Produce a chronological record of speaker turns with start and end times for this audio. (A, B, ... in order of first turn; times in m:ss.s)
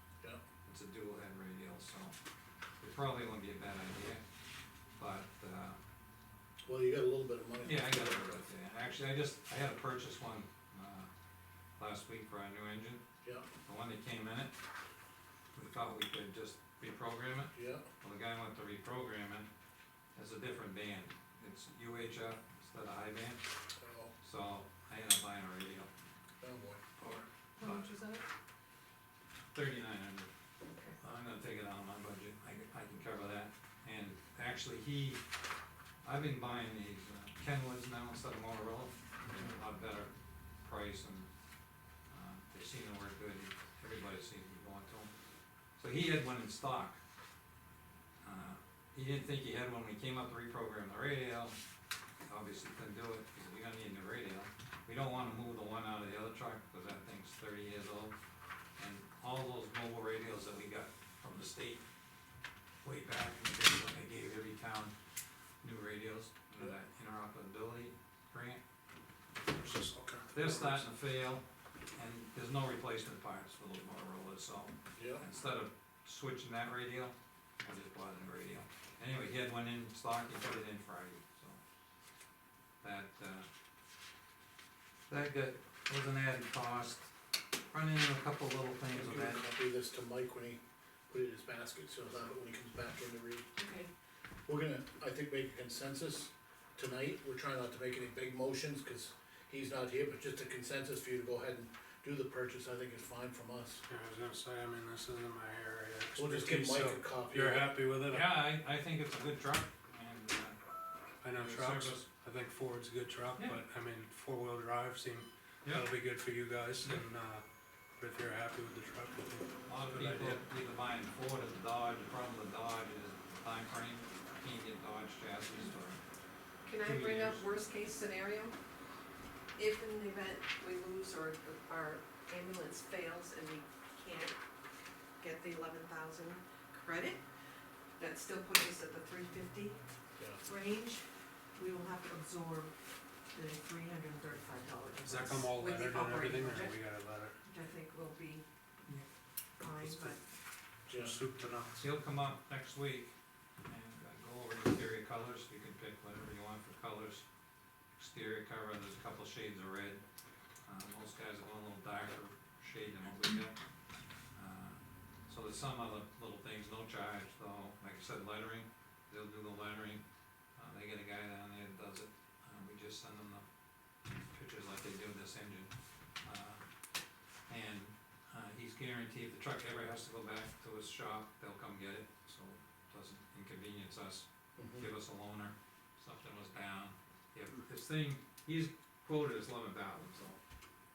0:00.6-0:02.1 A
0:02.8-0:04.2 A
0:05.0-0:05.8 A
0:06.7-0:08.4 B
0:07.6-0:11.1 A
0:11.8-0:13.0 A
0:13.6-0:14.6 A
0:15.5-0:19.5 A
0:17.5-0:17.8 B
0:20.1-0:23.4 A
0:23.8-0:24.1 B
0:24.2-0:25.9 A
0:26.4-0:26.8 B
0:27.0-0:27.8 A
0:27.6-0:28.2 C
0:29.5-0:30.3 A
0:30.7-0:31.0 C
0:31.0-0:35.2 A
0:36.0-0:40.1 A
0:40.6-0:41.3 A
0:42.1-0:45.1 A
0:45.8-0:47.0 A
0:48.2-0:51.6 A
0:52.2-0:58.1 A
0:58.8-1:01.8 A
1:02.8-1:04.9 A
1:05.6-1:08.6 A
1:09.5-1:10.8 D
1:10.3-1:11.4 A
1:11.9-1:21.6 A
1:15.0-1:15.2 B
1:22.8-1:23.5 A
1:25.1-1:27.1 A
1:27.7-1:29.4 A
1:28.9-1:33.4 B
1:33.6-1:33.9 C
1:34.4-1:43.8 B
1:43.9-1:48.3 D
1:46.2-1:47.7 B
1:48.1-1:50.6 A
1:51.2-1:57.4 D
1:51.3-1:52.0 A
1:58.0-2:00.4 D
1:59.7-2:06.0 A
2:06.6-2:08.6 C
2:06.8-2:07.5 A
2:09.6-2:14.4 C
2:15.2-2:17.2 C
2:18.0-2:19.8 C
2:20.4-2:21.0 C
2:21.5-2:22.7 C
2:23.3-2:26.8 C
2:25.0-2:27.4 D
2:27.4-2:28.4 C
2:29.6-2:30.2 C
2:29.8-2:30.1 A
2:30.9-2:31.2 B
2:30.9-2:31.8 D
2:31.8-2:33.1 A
2:33.7-2:37.2 A
2:38.0-2:40.0 A
2:40.6-2:43.5 A
2:44.3-2:50.0 A
2:50.6-2:53.4 A
2:54.3-2:55.7 A
2:56.2-2:56.6 A
2:57.5-3:10.4 A
3:04.6-3:04.8 B